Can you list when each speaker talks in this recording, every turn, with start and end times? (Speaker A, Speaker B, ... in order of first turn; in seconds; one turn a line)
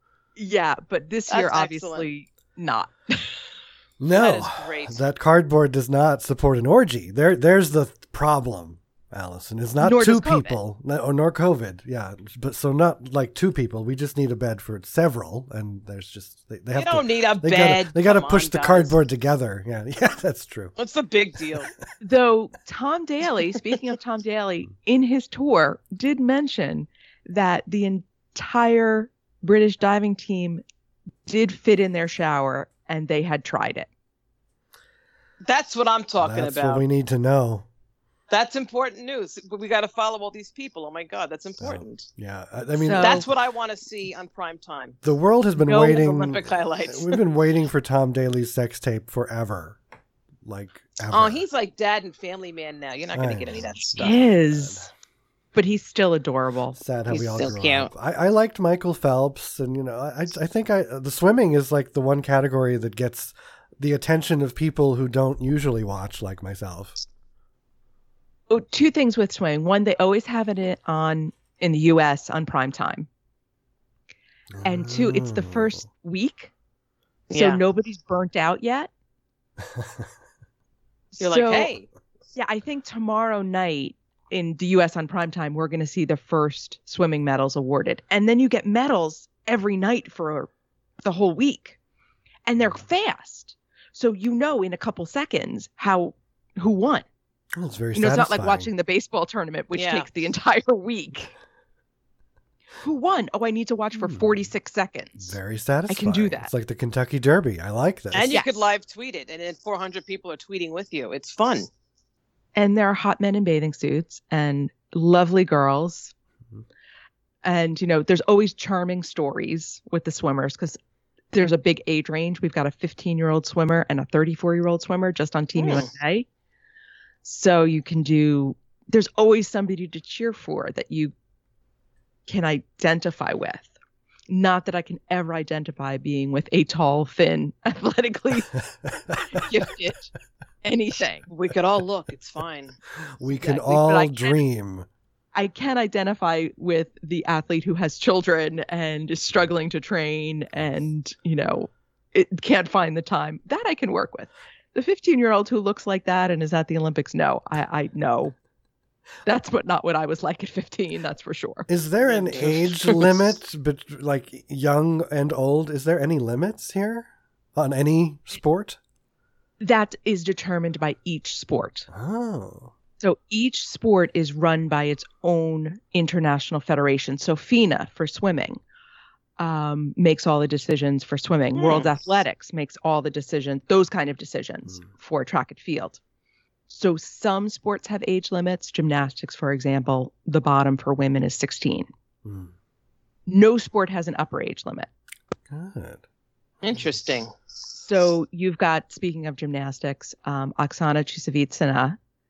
Speaker A: 0.4-3.4
Speaker B: 1.3-2.1
Speaker C: 4.0-20.8
Speaker B: 4.2-5.0
Speaker A: 9.8-10.6
Speaker B: 16.7-18.9
Speaker B: 20.8-21.7
Speaker A: 22.0-30.6
Speaker A: 31.3-33.9
Speaker B: 35.4-36.8
Speaker C: 36.2-37.7
Speaker B: 38.3-42.1
Speaker C: 41.6-43.3
Speaker A: 42.7-43.3
Speaker B: 43.0-45.0
Speaker C: 45.0-49.8
Speaker A: 45.6-46.1
Speaker B: 45.8-47.2
Speaker C: 50.4-51.4
Speaker B: 51.1-54.2
Speaker C: 53.1-54.9
Speaker A: 54.0-54.9
Speaker A: 55.5-56.8
Speaker C: 56.8-67.0
Speaker B: 57.1-57.9
Speaker A: 68.5-73.1
Speaker C: 74.5-75.8
Speaker A: 74.6-76.5
Speaker B: 77.3-77.6
Speaker A: 77.3-78.9
Speaker C: 79.7-80.0
Speaker A: 81.1-81.7
Speaker B: 81.2-81.9
Speaker A: 82.4-90.5
Speaker A: 91.0-91.8
Speaker A: 92.5-97.1
Speaker C: 97.5-98.7
Speaker A: 97.9-101.3
Speaker B: 99.8-100.1
Speaker A: 102.8-105.4
Speaker C: 104.0-104.5
Speaker C: 105.2-108.3
Speaker A: 105.9-106.5
Speaker B: 108.1-111.7
Speaker A: 108.3-108.7
Speaker A: 112.6-116.1
Speaker A: 117.4-120.8
Speaker A: 121.3-126.3
Speaker B: 125.6-125.9
Speaker A: 127.2-131.1
Speaker A: 132.3-133.7
Speaker A: 134.3-138.6
Speaker C: 139.1-139.4
Speaker A: 139.2-140.1
Speaker A: 140.6-141.3
Speaker B: 141.3-142.8
Speaker C: 143.2-144.9
Speaker A: 143.4-144.4
Speaker A: 145.3-158.3
Speaker A: 159.3-161.7
Speaker C: 161.7-168.8
Speaker B: 162.0-163.3
Speaker A: 169.6-171.9
Speaker C: 171.9-172.7
Speaker A: 173.0-178.6
Speaker A: 179.4-186.0
Speaker B: 181.6-181.9
Speaker A: 186.7-191.9
Speaker C: 192.2-192.5
Speaker A: 193.3-194.9
Speaker C: 195.5-196.0
Speaker B: 196.6-197.3
Speaker A: 197.8-202.0